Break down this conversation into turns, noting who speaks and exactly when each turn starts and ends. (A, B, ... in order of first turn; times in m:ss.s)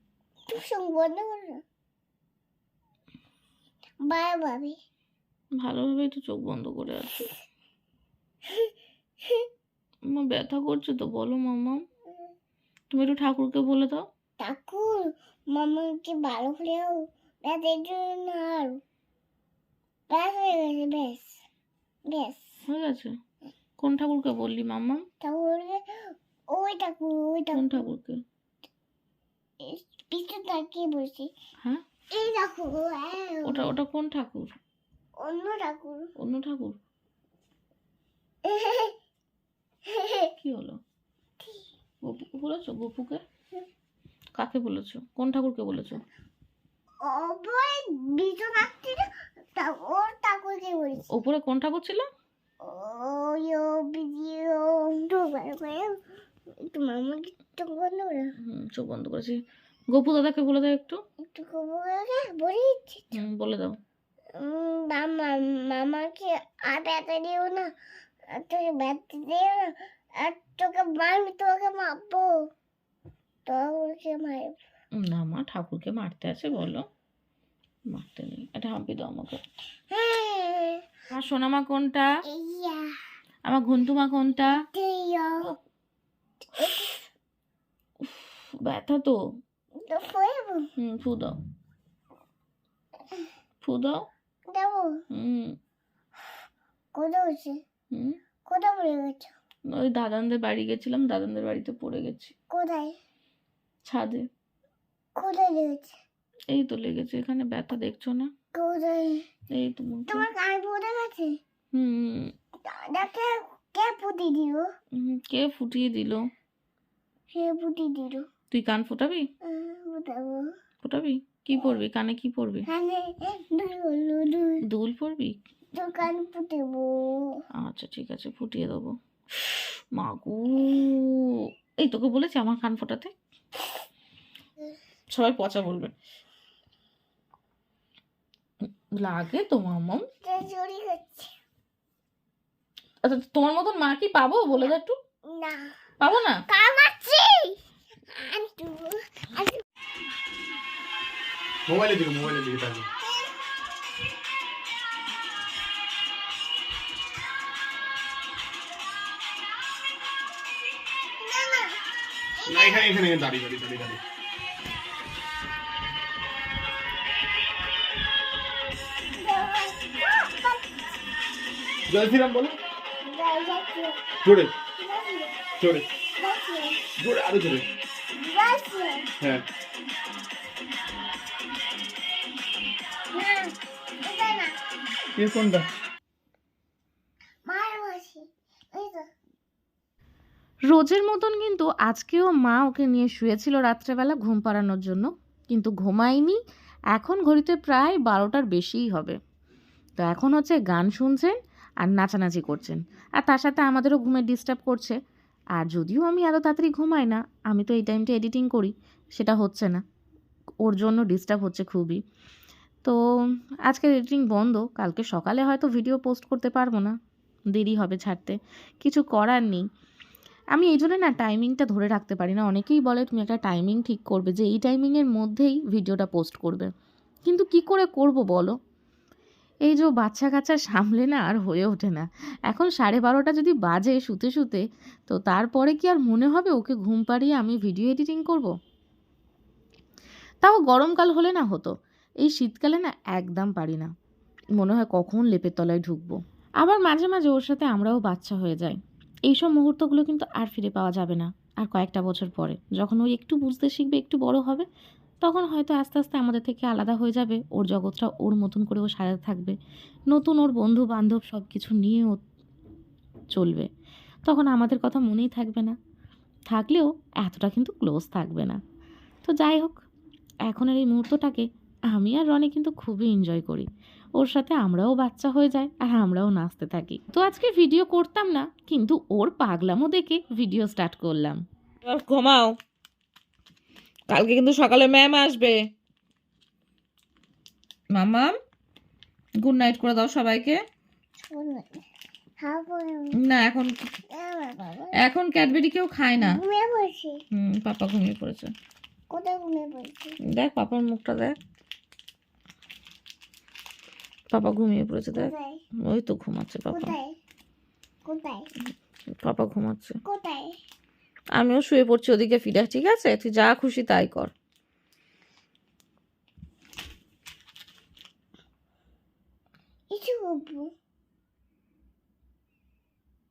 0:00.5-0:01.6 A
0:04.0-0:04.8 A
0:05.6-0:07.3 B
0:10.1-0:11.8 B
0:12.9-0:14.0 B
0:14.4-0:18.8 A
0:20.1-0:21.4 A
0:22.1-0:22.5 A
0:22.7-0:23.1 B
0:23.8-0:25.0 B
0:25.2-0:27.9 A
0:27.5-0:28.2 B
0:29.6-0:31.3 A
0:32.1-0:33.8 A
0:33.4-0:34.6 B
0:35.2-0:36.1 A
0:36.2-0:36.8 B
0:38.4-0:39.0 A
0:39.9-0:40.3 A
0:40.4-0:40.8 B
0:41.4-0:41.7 A
0:42.0-0:43.2 B
0:44.4-0:46.0 B
0:47.0-0:51.2 A
0:51.1-0:52.1 B
0:52.6-0:56.0 A
0:56.6-0:58.3 A
0:58.4-0:59.4 B
0:59.9-1:01.0 B
1:01.3-1:03.1 A
1:03.1-1:03.8 B
1:04.4-1:07.7 A
1:08.3-1:12.3 A
1:13.5-1:14.6 A
1:15.0-1:16.8 B
1:17.9-1:19.4 B
1:19.9-1:20.8 A
1:21.1-1:22.1 B
1:22.3-1:22.9 A
1:23.5-1:24.6 B
1:24.5-1:25.5 A
1:26.6-1:27.0 A
1:28.0-1:29.2 B
1:29.8-1:30.7 A
1:30.8-1:31.4 B
1:33.6-1:34.0 B
1:34.5-1:35.0 A
1:35.1-1:35.6 B
1:37.0-1:37.6 A
1:37.9-1:38.2 B
1:38.5-1:39.3 A
1:39.7-1:42.3 B
1:42.5-1:43.0 A
1:43.8-1:44.3 B
1:45.2-1:46.0 A
1:46.5-1:48.3 B
1:48.5-1:49.3 A
1:49.5-1:50.3 B
1:50.1-1:51.4 A
1:51.7-1:52.3 B
1:52.6-1:54.7 A
1:55.0-1:56.2 B
1:57.3-1:58.3 A
1:58.5-1:59.3 B
1:59.4-2:00.5 A
2:00.8-2:02.7 B
2:02.7-2:04.6 A
2:04.6-2:05.4 B
2:05.8-2:07.4 A
2:07.5-2:08.9 B
2:09.9-2:13.1 B
2:15.1-2:15.9 B
2:19.0-2:20.1 B
2:20.2-2:21.3 A
2:23.0-2:25.0 B
2:25.3-2:25.7 A
2:26.0-2:26.4 B
2:26.5-2:27.6 A
2:28.1-2:29.6 A
2:31.7-2:32.9 C
2:33.0-2:33.3 A
2:41.2-2:41.8 A
2:42.4-2:42.9 A
2:42.4-2:44.0 C
2:49.2-2:50.6 A
2:51.9-2:52.6 C
2:53.0-2:54.0 A
2:54.2-2:54.5 C
2:54.8-2:55.4 A
2:55.6-2:55.9 C
2:56.2-2:56.8 A
2:57.0-2:57.7 C
2:58.2-2:59.1 A
2:59.2-2:59.4 C
3:03.1-3:04.6 A
3:05.2-3:05.7 C
3:07.5-3:09.1 A
3:10.7-3:16.4 B
3:16.9-3:19.2 B
3:20.0-3:25.0 B
3:25.6-3:29.8 B
3:30.6-3:32.0 B
3:33.7-3:37.0 B
3:37.5-3:39.6 B
3:40.6-3:46.7 B
3:47.3-3:48.5 B
3:49.7-3:58.5 B
4:00.4-4:03.9 B
4:04.6-4:14.7 B
4:15.2-4:19.6 B
4:20.1-4:22.2 B
4:23.3-4:23.7 B
4:24.3-4:25.8 B
4:26.5-4:28.6 B
4:29.2-4:29.8 B
4:30.5-4:42.5 B
4:44.1-4:45.6 B
4:47.9-4:48.3 B
4:49.4-4:50.6 B
4:51.2-4:51.8 A
4:52.4-4:53.2 A
4:53.1-4:53.7 B
4:54.1-4:55.0 A
4:55.0-4:56.4 B
4:56.2-4:57.2 A
4:57.3-4:58.5 B
4:59.1-5:00.2 A
5:00.2-5:01.4 B
5:04.3-5:05.3 B
5:05.1-5:05.6 A
5:05.8-5:07.0 B
5:06.7-5:07.1 A
5:08.0-5:08.5 A
5:09.2-5:10.0 B
5:10.1-5:10.5 A
5:11.4-5:14.3 B
5:19.9-5:20.7 A